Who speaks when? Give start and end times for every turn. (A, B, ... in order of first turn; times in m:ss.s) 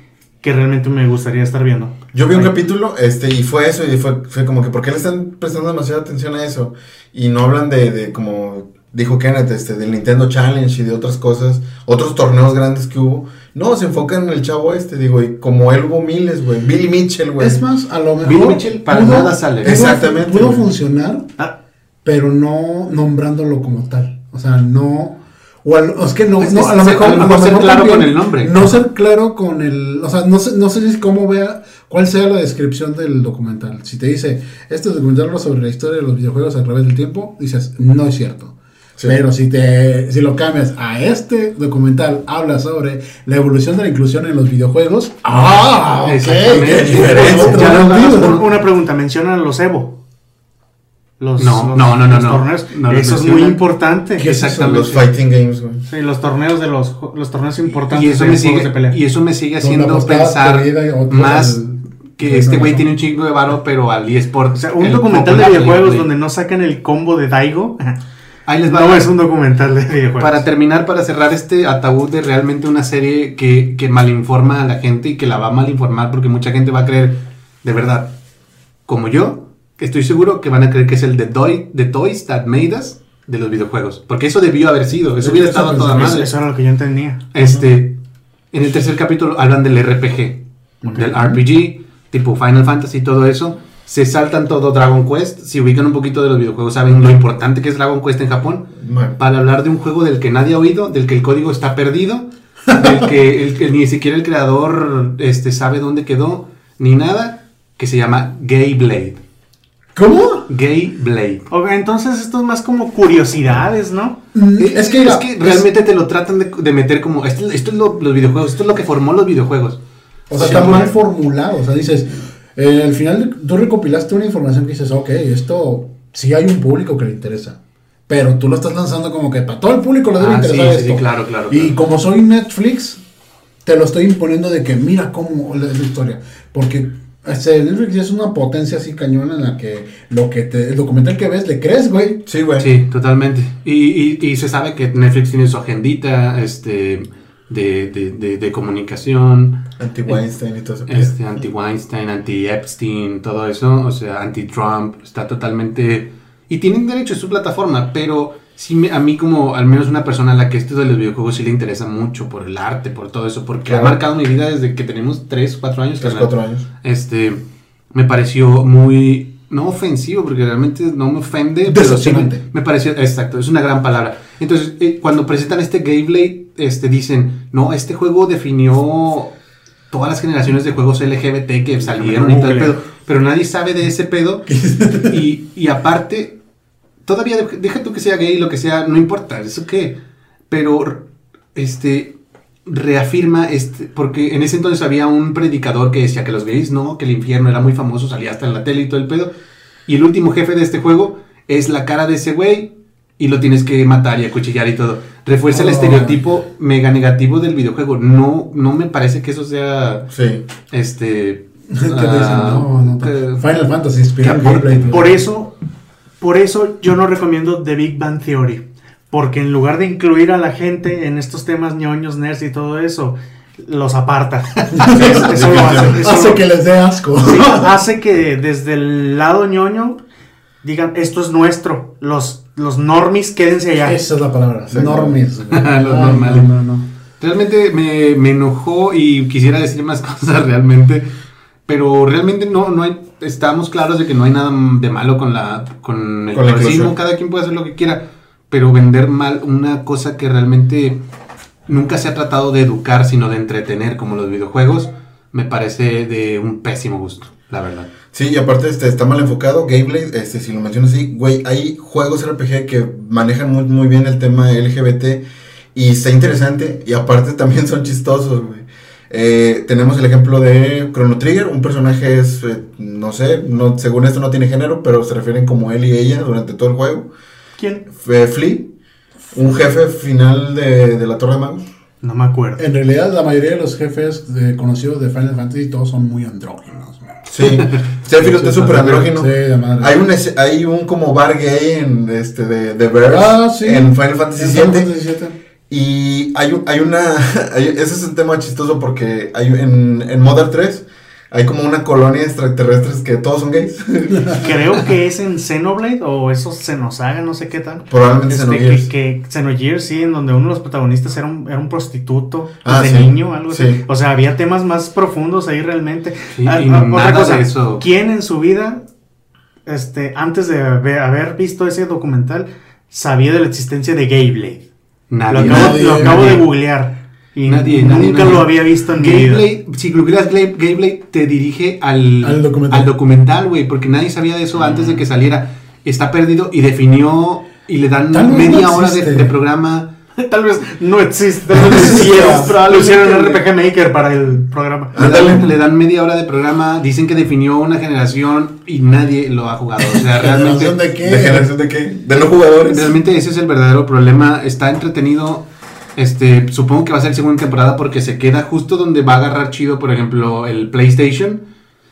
0:00.4-0:02.5 A
0:02.1-0:17.6 B
0:17.4-0:21.3 C
0:18.2-0:19.8 D
0:19.6-0:20.7 B
0:22.0-0:48.4 C
0:26.4-0:28.7 D
0:45.4-0:48.4 D
0:46.9-0:47.6 B
0:47.5-0:50.0 A
0:51.2-0:54.3 A
0:51.4-0:53.6 D
0:54.2-0:55.1 D
0:54.2-0:54.9 C
0:54.6-0:55.8 B
0:55.9-0:59.0 A
0:57.9-1:01.6 D
0:59.6-1:02.9 C
1:02.2-1:06.1 D
1:04.6-1:08.0 A
1:08.5-1:09.1 D
1:08.7-1:10.4 A
1:10.2-1:18.1 D
1:18.9-1:26.4 D
1:25.2-1:26.2 C
1:26.0-1:27.2 A
1:27.3-1:28.0 D
1:28.5-1:49.2 D
1:30.8-1:31.4 C
1:38.8-1:39.2 B
1:42.7-1:43.1 C
1:50.0-1:50.5 C
1:50.5-1:51.5 D
1:51.5-1:54.2 A
1:54.3-1:55.7 C
1:54.6-2:00.9 D
2:00.3-2:13.0 C
2:00.3-2:00.9 B
2:10.2-2:11.8 D
2:13.6-2:22.2 C
2:22.3-2:22.7 B
2:22.6-2:30.2 D
2:29.8-2:31.1 B
2:30.9-2:47.4 D
2:43.6-2:44.0 B
2:46.0-2:46.6 B
2:47.9-2:59.4 D
2:51.6-2:52.4 C
2:59.9-3:06.4 D
3:01.8-3:02.8 C
3:04.5-3:05.2 C
3:07.0-3:10.0 D
3:10.5-3:12.1 D
3:12.7-3:19.3 D
3:19.9-3:30.1 D
3:25.5-3:26.2 C
3:30.1-3:30.4 B
3:30.7-3:33.5 D
3:31.7-3:35.2 C
3:34.2-3:34.9 D
3:34.9-3:35.6 A
3:36.2-3:46.4 A
3:44.7-3:47.7 C
3:45.2-3:46.0 B
3:47.2-3:50.0 A
3:50.6-3:54.0 A
3:53.8-3:56.9 C
3:54.7-3:55.2 B
3:55.5-3:56.5 D
3:57.2-4:01.1 D
4:01.7-4:11.0 D
4:06.3-4:06.9 B
4:11.7-4:17.9 D
4:18.1-4:37.1 B
4:37.6-4:37.8 A
4:37.9-4:38.7 B
4:39.3-4:41.6 B
4:42.0-4:42.6 A
4:42.6-4:47.5 C
4:47.3-4:54.9 B
4:48.1-4:50.0 C
4:53.1-4:55.4 C
4:55.7-5:04.5 B
5:04.3-5:18.9 A
5:07.9-5:08.9 B
5:12.6-5:13.8 B
5:16.3-5:17.8 D
5:19.7-5:24.6 A
5:25.1-5:26.5 D
5:25.3-5:29.5 A
5:25.4-5:26.4 C
5:27.4-5:39.9 D
5:32.2-5:32.9 C
5:38.1-5:39.3 C
5:40.2-5:45.4 A
5:41.5-5:43.4 B
5:41.6-5:42.6 C
5:42.8-5:43.0 D
5:44.9-5:45.5 B
5:45.0-5:50.8 D
5:50.0-5:51.5 C
5:51.0-5:53.0 B
5:52.2-6:01.4 D